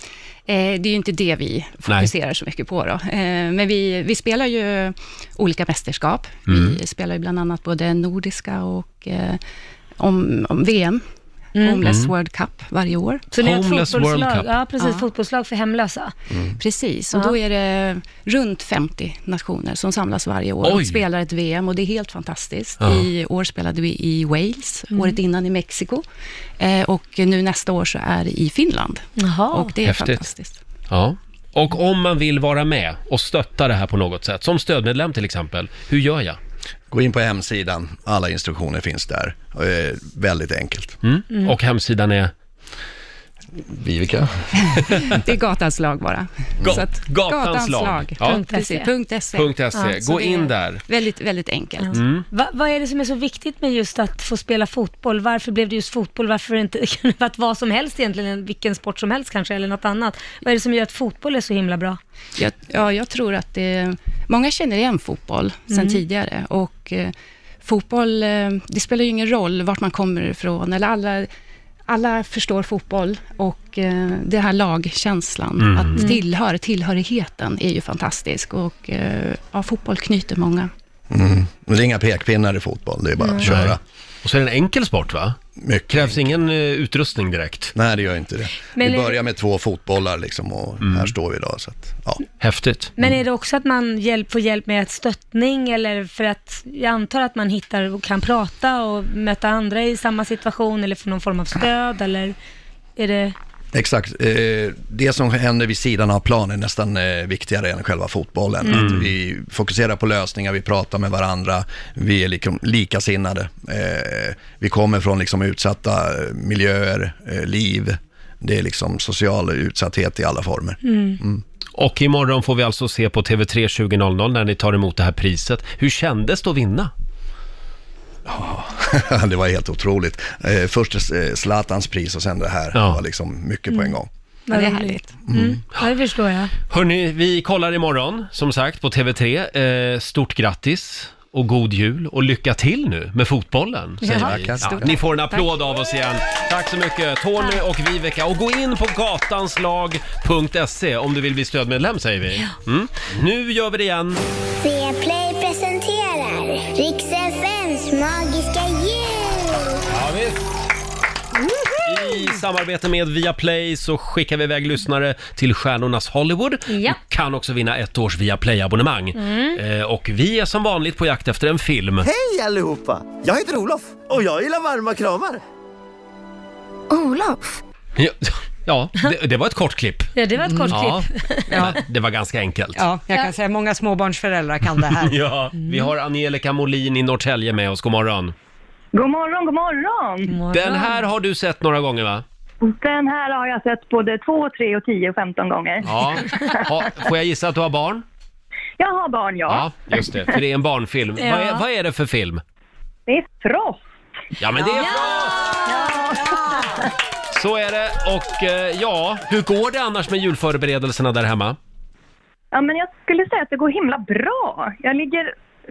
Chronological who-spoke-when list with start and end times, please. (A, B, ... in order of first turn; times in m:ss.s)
0:00.5-0:09.4 A
0:06.5-0:06.8 B
0:10.0-0:11.0 A
0:11.6-0:11.8 C
0:11.6-0:13.3 A
0:11.8-0:12.1 B
0:13.3-0:16.1 C
0:13.4-0:14.5 B
0:14.8-0:15.0 A
0:16.5-0:26.0 A
0:20.6-0:21.0 B
0:22.8-0:23.1 B
0:24.9-0:25.2 C
0:26.6-0:30.6 A
0:29.2-0:29.7 C
0:29.8-0:30.2 B
0:30.9-0:36.4 B
0:36.9-0:41.0 D
0:41.0-0:42.3 B
0:43.6-0:45.0 D
0:44.8-0:52.0 A
0:46.6-0:48.4 B
0:48.2-0:48.9 C
0:49.3-0:50.8 B
0:51.8-1:02.0 C
0:51.9-0:52.2 B
1:02.4-1:11.3 A
1:05.7-1:06.0 C
1:11.9-1:20.7 A
1:15.6-1:16.0 B
1:15.9-1:16.2 C
1:21.1-1:23.8 D
1:23.2-1:23.4 C
1:23.4-1:25.4 B
1:25.6-1:26.3 D
1:25.9-1:27.7 B
1:27.7-1:32.2 D
1:28.6-1:29.2 C
1:30.8-1:31.1 B
1:32.4-1:33.2 B
1:33.0-1:42.4 C
1:43.0-1:43.3 C
1:43.7-2:01.4 D
1:48.6-1:49.0 C
1:48.7-1:49.1 B
2:00.8-2:01.2 C
2:01.8-2:06.9 B
2:08.2-2:14.1 D
2:12.7-2:13.0 B
2:14.5-2:16.5 C
2:14.5-2:15.1 A
2:15.2-2:15.6 D
2:16.7-2:34.2 B
2:24.0-2:24.4 C
2:24.0-2:25.0 D
2:24.6-2:25.4 A
2:34.6-2:39.8 E
2:39.9-2:40.4 B
2:41.8-2:52.1 B
2:46.7-2:47.0 C
2:49.2-2:49.6 C
2:52.0-2:55.4 F
2:58.0-3:00.1 B
3:00.2-3:01.7 C
3:00.4-3:00.7 G
3:00.7-3:02.8 B
3:01.5-3:01.8 G
3:02.8-3:05.2 G
3:05.0-3:08.3 B
3:05.6-3:05.9 C
3:08.9-3:10.2 H
3:10.3-3:11.0 C
3:10.5-3:12.2 B
3:12.7-3:15.9 H
3:15.8-3:18.0 B
3:18.8-3:19.6 H
3:19.5-3:22.4 B
3:21.2-3:21.6 C
3:23.1-3:23.8 H
3:24.4-3:25.5 B
3:24.7-3:25.8 C
3:25.7-3:26.3 H
3:27.3-3:31.6 B
3:32.5-3:35.3 H